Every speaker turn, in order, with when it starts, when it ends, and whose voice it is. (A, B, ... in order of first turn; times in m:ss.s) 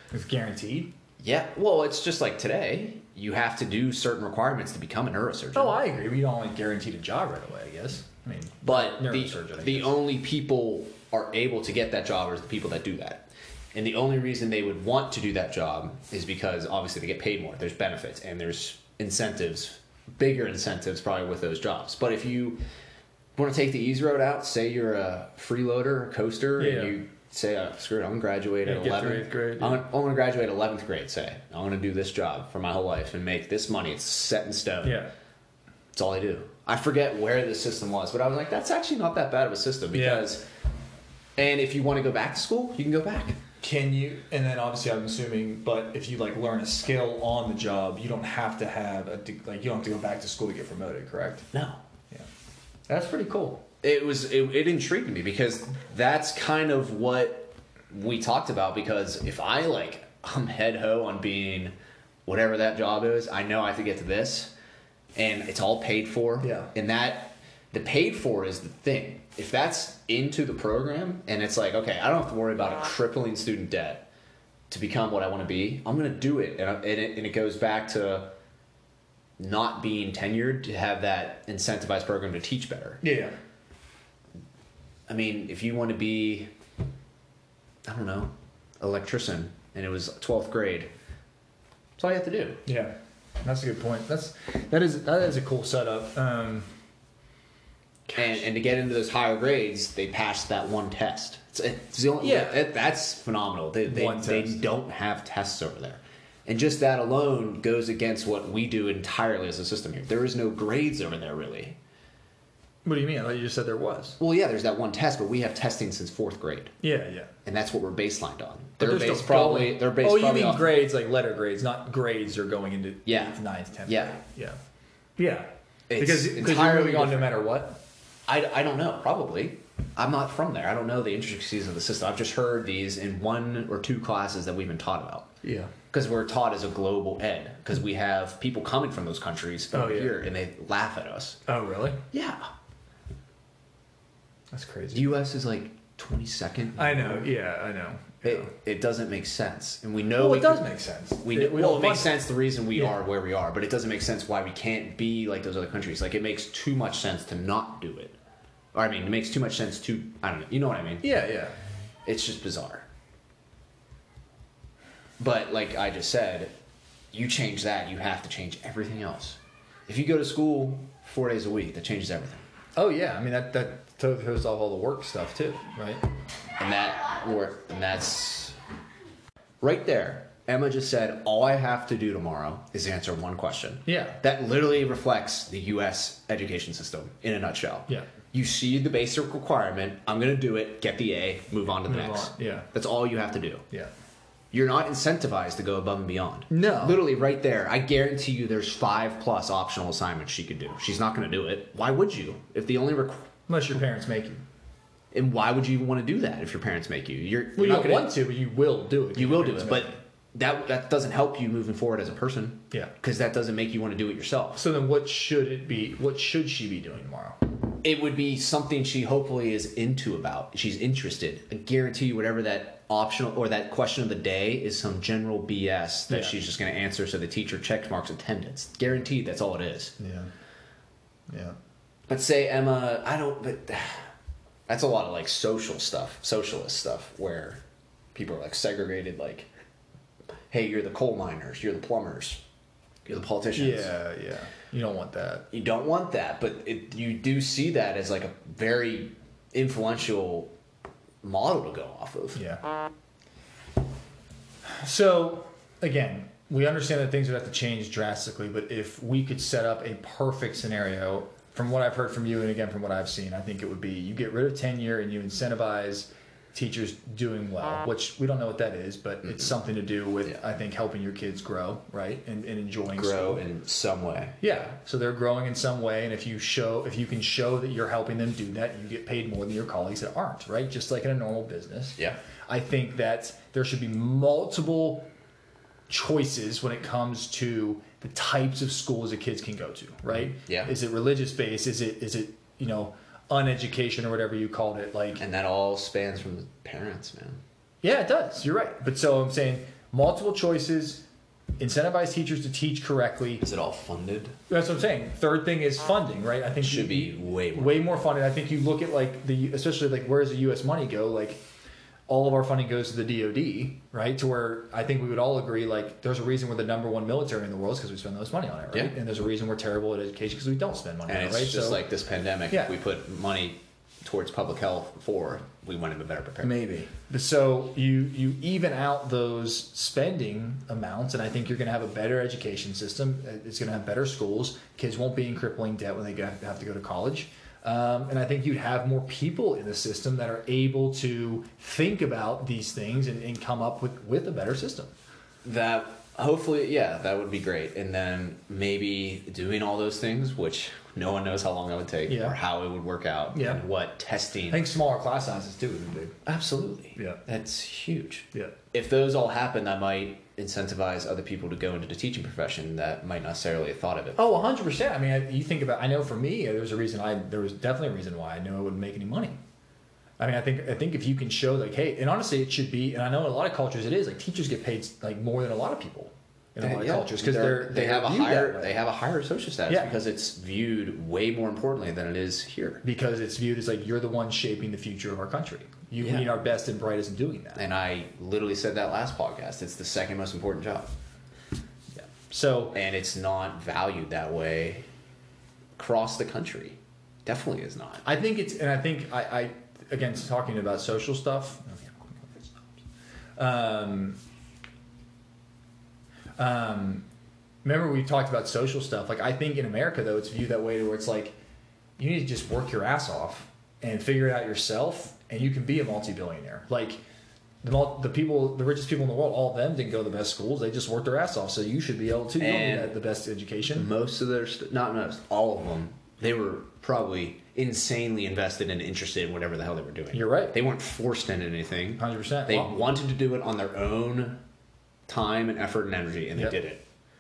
0:00.1-0:00.9 A
0:01.2-0:05.8 B
0:05.6-0:10.0 A
0:08.6-0:22.6 B
0:23.4-0:35.0 B
0:26.6-0:27.0 A
0:28.6-0:29.8 A
0:34.8-0:35.1 A
0:35.9-0:40.5 B
0:39.9-0:40.3 A
0:41.4-0:43.4 B
0:43.6-0:51.5 A
0:51.5-0:51.8 B
0:52.9-0:53.6 A
0:53.8-1:01.7 B
1:02.3-1:04.5 B
1:05.2-1:14.1 B
1:06.4-1:06.7 A
1:14.7-1:18.3 B
1:19.4-1:23.0 B
1:23.0-1:23.3 A
1:25.1-1:26.5 B
1:27.8-1:30.9 B
1:32.0-1:32.6 B
1:32.6-1:36.7 A
1:38.1-1:38.4 A
1:38.1-1:51.8 B
1:42.2-1:42.6 A
1:43.9-1:44.6 A
1:52.8-1:54.2 A
1:54.2-1:56.7 B
1:56.8-1:57.3 A
1:57.4-2:00.8 B
1:58.8-2:04.6 A
2:03.1-2:03.4 B
2:03.9-2:04.2 B
2:05.2-2:07.8 A
2:05.9-2:07.4 B
2:08.3-2:15.3 B
2:15.4-2:15.7 A
2:15.9-2:21.4 B
2:19.7-2:20.2 A
2:21.5-2:22.0 A
2:22.1-2:22.5 B
2:24.5-2:25.1 A
2:24.9-2:27.3 B
2:26.8-2:28.5 A
2:28.2-2:30.7 B
2:30.2-2:32.2 A
2:31.2-2:38.1 B
2:38.7-2:41.1 B
2:41.0-2:41.6 A
2:42.0-2:42.9 B
2:45.2-2:46.5 B
2:47.1-2:52.4 B
2:52.8-2:56.0 A
2:56.6-2:58.6 B
2:59.6-3:13.6 B
3:03.9-3:04.2 A
3:11.9-3:12.7 A
3:14.5-3:23.3 B
3:16.5-3:17.0 A
3:23.5-3:24.4 A
3:25.1-3:28.2 B
3:27.6-3:30.0 A
3:29.2-3:34.6 B
3:34.6-3:37.4 A
3:37.8-3:49.9 B
3:46.1-3:46.4 A
3:50.0-3:50.3 A
3:51.3-3:51.6 A
3:52.1-3:54.1 B
3:54.7-3:57.6 B
3:58.1-3:59.5 B
4:00.5-4:02.4 B
4:03.0-4:03.9 B
4:03.6-4:05.5 A
4:05.5-4:10.5 B
4:11.2-4:12.4 B
4:12.4-4:12.6 A
4:14.7-4:33.4 A
4:32.9-4:34.4 B
4:34.4-4:45.1 A
4:45.9-4:55.2 A
4:50.5-4:50.7 B
4:55.2-4:57.4 B
4:57.8-5:01.0 A
5:01.6-5:03.4 A
5:03.4-5:04.4 B
5:04.5-5:11.4 A
5:06.6-5:07.9 B
5:12.1-5:21.8 A
5:21.1-5:26.5 B
5:26.4-5:44.9 A
5:45.4-5:54.6 B
5:52.1-5:52.4 A
5:53.3-5:53.6 A
5:54.5-5:56.1 A
5:56.2-6:04.4 B
6:04.2-6:09.4 A
6:10.2-6:18.8 A
6:16.6-6:22.8 B
6:19.7-6:19.9 A
6:22.8-6:27.6 A
6:26.0-6:26.4 B
6:27.6-6:30.9 B
6:32.0-6:32.8 A
6:32.7-6:34.8 B
6:35.8-6:38.0 B
6:38.0-6:42.5 A
6:43.4-6:44.2 A
6:46.4-6:47.1 A
6:47.6-6:51.3 A
6:52.0-6:57.0 A
6:57.6-7:03.9 A
7:02.4-7:03.0 B
7:03.7-7:14.4 B
7:10.1-7:10.6 A
7:12.0-7:12.8 A
7:15.1-7:16.8 B